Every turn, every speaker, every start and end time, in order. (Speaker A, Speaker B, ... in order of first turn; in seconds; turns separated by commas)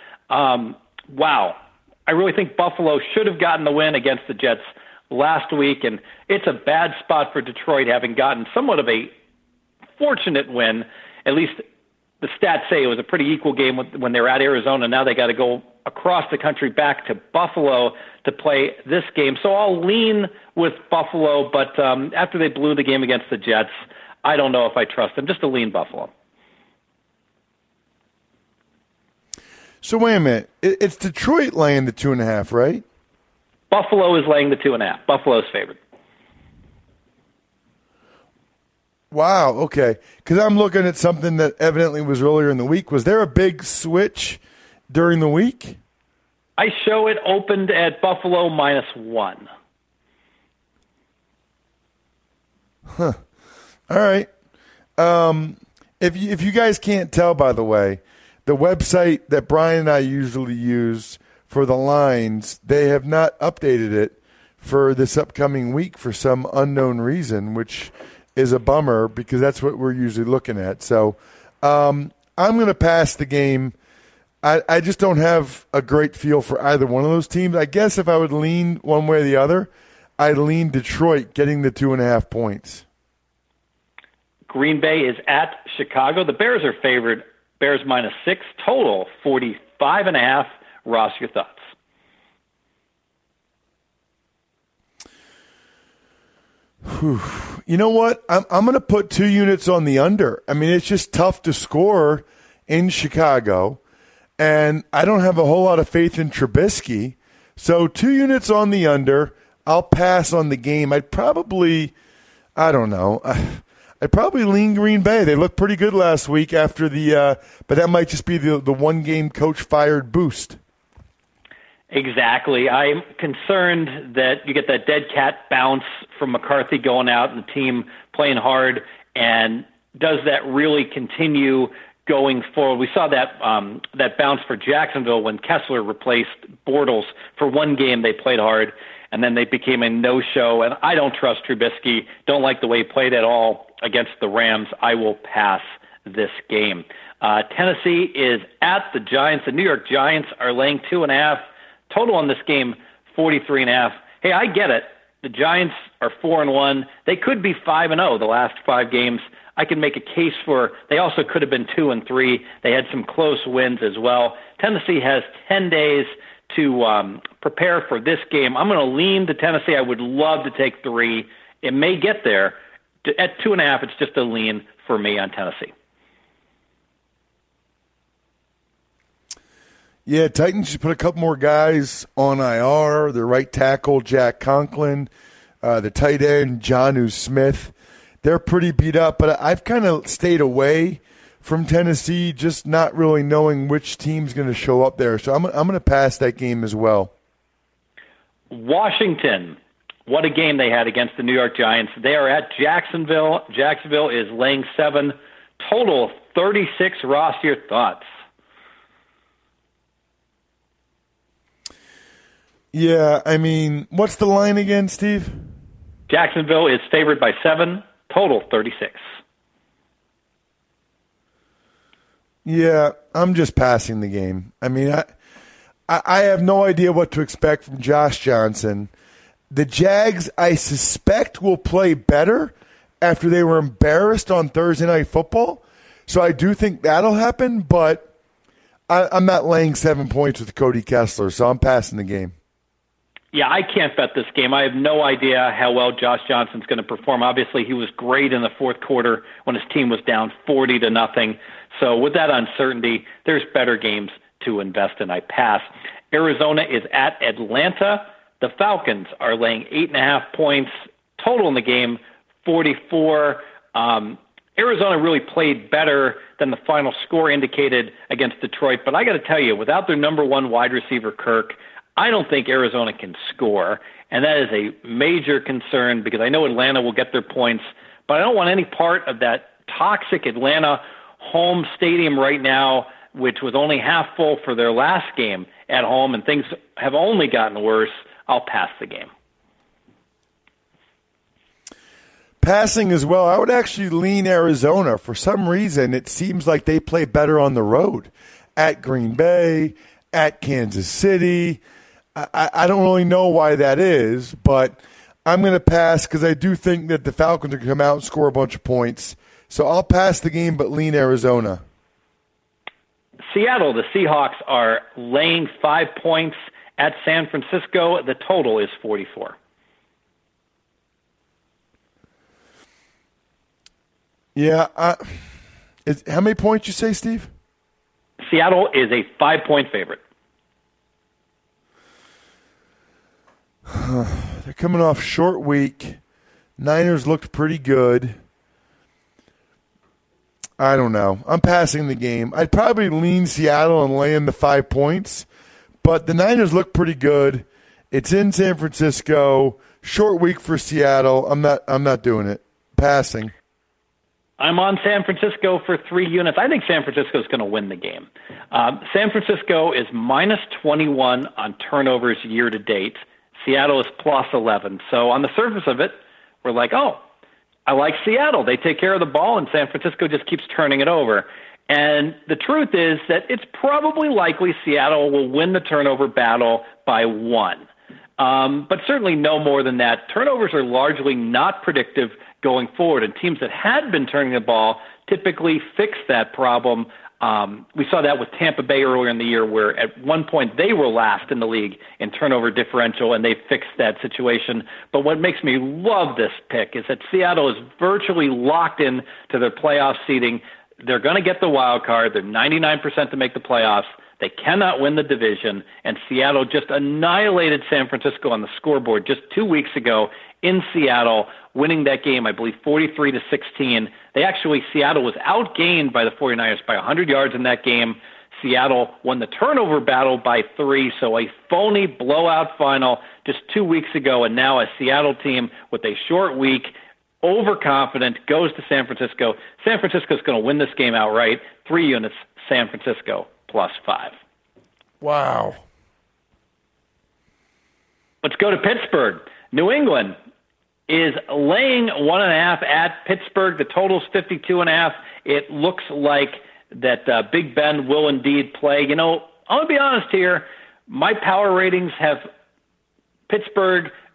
Speaker A: 0.3-9.1, Speaker A: 10.0-11.6, Speaker A: 12.2-23.7, Speaker A: 24.2-26.1, Speaker B: 29.8-32.8, Speaker A: 33.7-35.8, Speaker B: 39.1-45.8, Speaker A: 46.6-49.5, Speaker B: 52.9-53.2, Speaker B: 53.9-54.3, Speaker B: 55.0-73.8, Speaker B: 74.4-82.8, Speaker A: 84.5-91.6, Speaker B: 96.8-103.8, Speaker B: 104.4-111.9, Speaker B: 112.6-120.6, Speaker A: 121.9-175.7, Speaker B: 180.1-185.1, Speaker B: 185.6-197.1, Speaker A: 198.5-208.1, Speaker B: 212.7-215.5, Speaker A: 216.1-219.0, Speaker B: 222.4-225.1, Speaker B: 225.9-228.9, Speaker B: 229.5-238.1, Speaker B: 238.9-242.3, Speaker A: 243.3-289.1, Speaker B: 292.4-301.6, Speaker B: 302.1-311.6, Speaker A: 313.3-319.4, Speaker B: 324.4-325.2, Speaker B: 325.9-327.3, Speaker A: 328.2-330.0, Speaker B: 333.7-336.0, Speaker B: 336.6-338.2, Speaker B: 340.6-345.3, Speaker B: 345.8-353.3, Speaker A: 354.4-367.0, Speaker A: 367.7-377.7, Speaker A: 378.2-434.1, Speaker B: 435.0-435.6, Speaker A: 438.2-440.2, Speaker A: 440.9-452.3, Speaker A: 453.3-453.9